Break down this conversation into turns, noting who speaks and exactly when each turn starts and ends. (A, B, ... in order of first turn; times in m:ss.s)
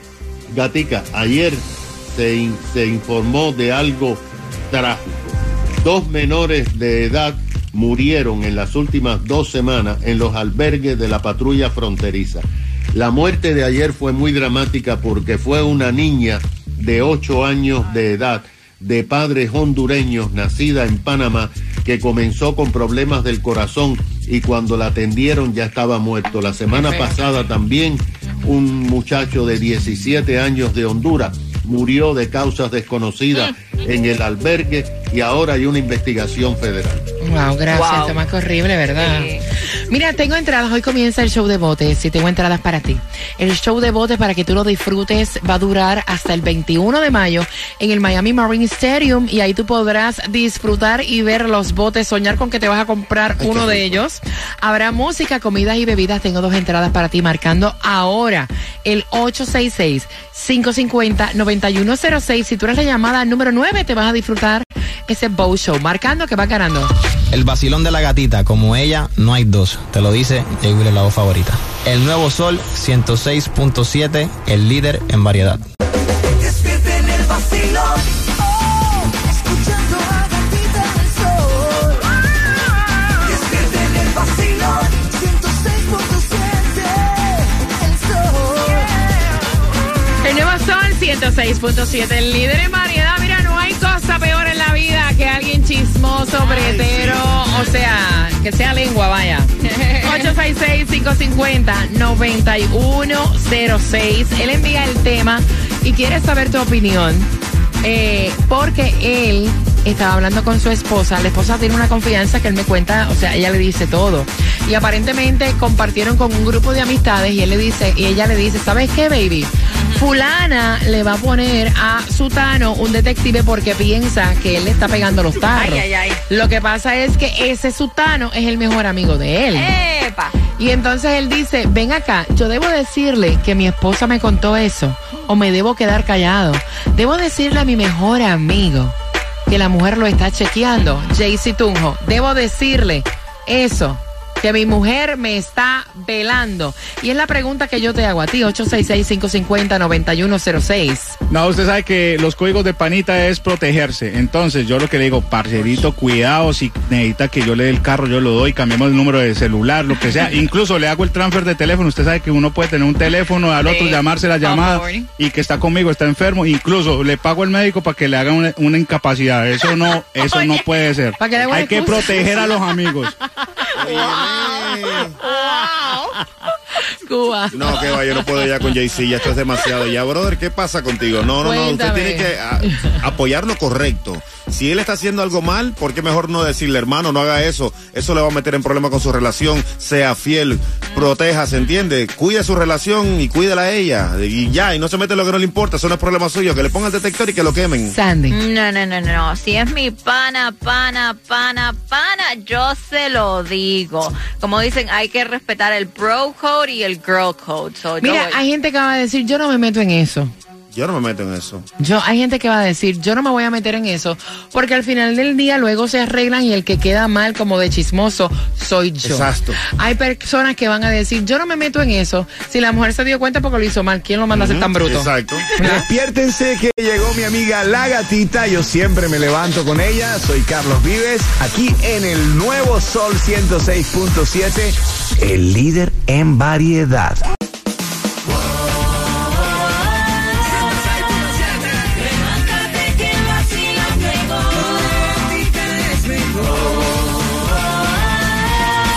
0:00.5-0:37.0 A
0:26.7-0:27.2 B
0:37.2-1:06.9 B
0:37.7-0:38.1 C
0:38.9-0:39.4 C
0:53.4-0:54.0 D
1:07.3-1:15.6 E
1:19.1-1:21.7 F
1:25.1-1:27.1 F
1:27.9-1:28.8 F
1:30.2-1:47.3 B
1:36.4-1:36.7 C
1:36.5-1:37.2 D
1:39.8-1:40.3 C
1:47.8-2:09.7 B
1:59.7-2:00.0 C
2:05.5-2:06.2 C
2:09.5-2:10.4 C
2:10.6-2:18.9 B
2:19.5-2:31.2 B
2:31.3-2:53.1 G
2:40.0-2:40.3 C
2:43.6-2:45.1 C
2:50.3-2:50.6 C
2:51.2-2:52.6 B
2:53.8-2:55.1 D
2:53.9-2:54.5 C
2:55.2-2:56.1 B
2:55.2-2:55.9 C
2:57.0-2:58.0 B
2:57.5-3:18.0 D
3:01.4-3:03.0 B
3:17.8-3:18.4 B
3:18.3-3:28.4 C
3:28.0-3:30.3 B
3:30.7-3:31.6 D
3:31.8-3:45.8 B
3:39.0-3:39.6 D
3:44.3-3:45.5 D
3:45.6-3:57.2 H
4:00.5-4:01.3 C
4:02.0-4:05.1 C
4:06.6-4:07.0 C